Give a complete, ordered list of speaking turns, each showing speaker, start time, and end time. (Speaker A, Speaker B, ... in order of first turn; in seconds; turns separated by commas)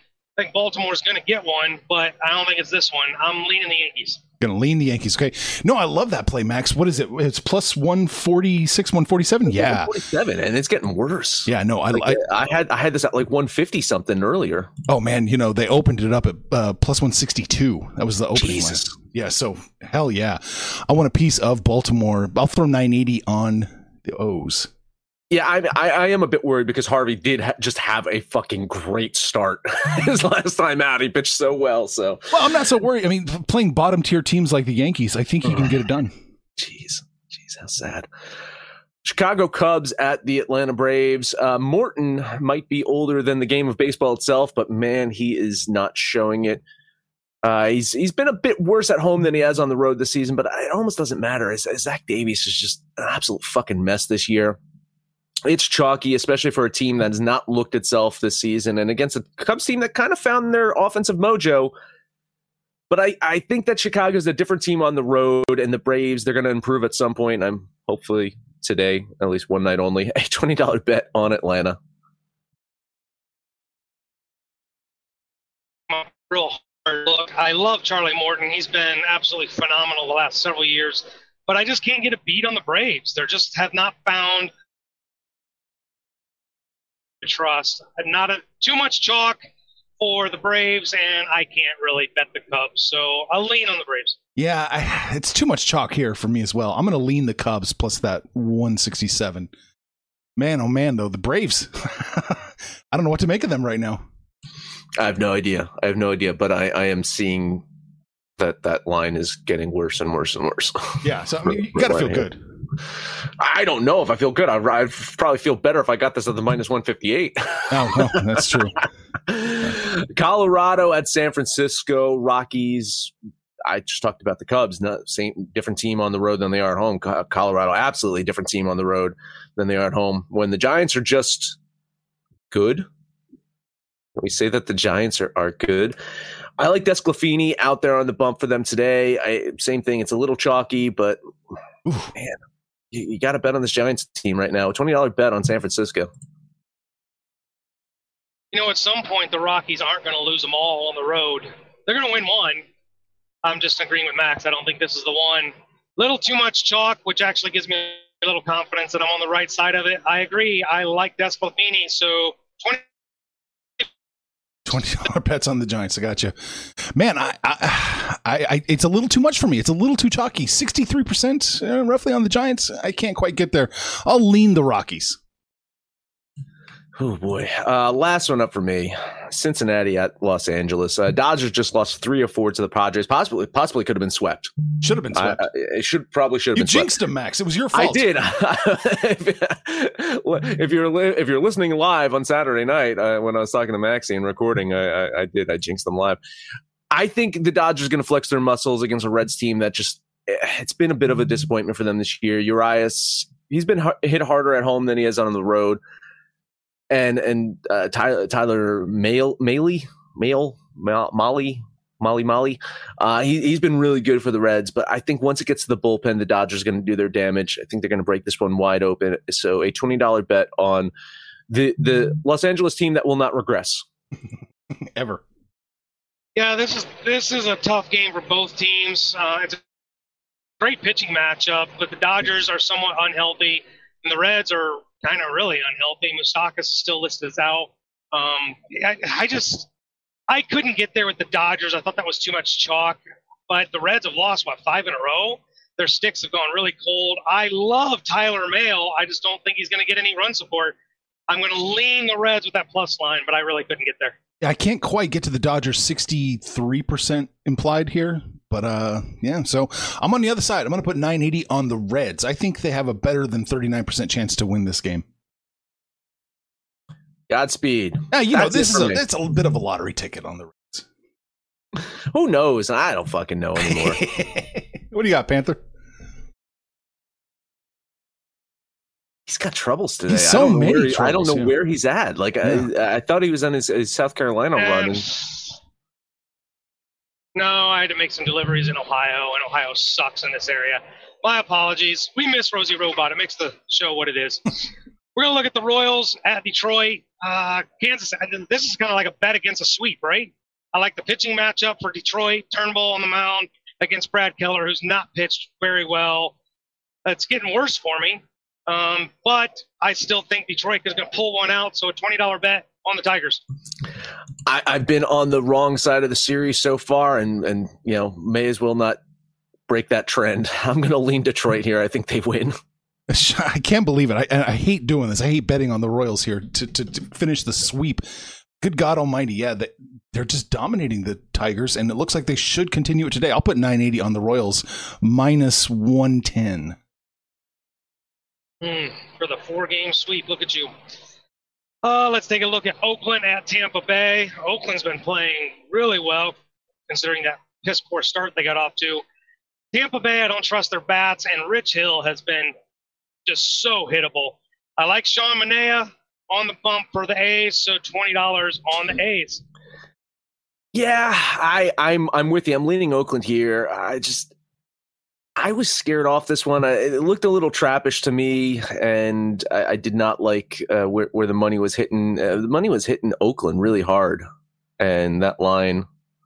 Speaker A: 0.4-4.2, Speaker B: 4.4-10.0, Speaker C: 9.5-14.7, Speaker B: 11.5-12.2, Speaker B: 14.9-24.7, Speaker C: 18.4-18.9, Speaker C: 25.3-32.3, Speaker B: 32.3-36.1, Speaker C: 35.4-35.7, Speaker C: 36.6-38.1, Speaker C: 39.0-46.6, Speaker C: 47.4-54.6, Speaker C: 55.4-61.7, Speaker C: 62.9-71.8, Speaker A: 75.9-84.5, Speaker A: 87.2-89.4, Speaker A: 90.0-94.2, Speaker B: 94.3-99.5, Speaker B: 100.4-104.0, Speaker C: 105.0-107.6, Speaker C: 108.4-111.0, Speaker B: 111.0-112.4, Speaker C: 111.6-112.2, Speaker C: 113.4-123.1, Speaker B: 117.7-118.8, Speaker C: 123.6-131.6, Speaker C: 132.5-132.8, Speaker C: 134.2-136.0, Speaker C: 136.6-141.2, Speaker B: 141.8-142.1, Speaker C: 142.9-146.1, Speaker A: 148.5-152.6, Speaker A: 153.4-162.8, Speaker B: 164.7-175.2, Speaker C: 177.0-184.5, Speaker B: 184.8-185.4, Speaker C: 185.1-186.9, Speaker B: 186.6-188.1, Speaker C: 187.7-196.2, Speaker C: 196.9-205.8, Speaker C: 206.9-220.9, Speaker C: 221.5-223.8, Speaker B: 224.7-225.2, Speaker A: 226.3-229.6, Speaker A: 230.6-239.7, Speaker A: 240.3-250.7, Speaker A: 251.3-254.2, Speaker B: 254.4-265.0, Speaker C: 267.3-269.0, Speaker B: 268.1-270.9, Speaker C: 272.1-274.0, Speaker B: 273.6-275.6, Speaker C: 279.3-285.1, Speaker B: 280.1-281.5, Speaker B: 282.4-282.7, Speaker A: 284.6-285.5, Speaker A: 287.3-306.3, Speaker A: 307.0-313.4, Speaker C: 314.4-319.0, Speaker C: 319.7-322.6, Speaker B: 323.1-336.8, Speaker A: 338.6-340.7, Speaker A: 341.8-346.4, Speaker A: 346.9-349.0, Speaker A: 349.7-352.5, Speaker A: 353.2-359.4, Speaker C: 360.7-364.3, Speaker C: 365.4-374.2, Speaker C: 374.8-375.9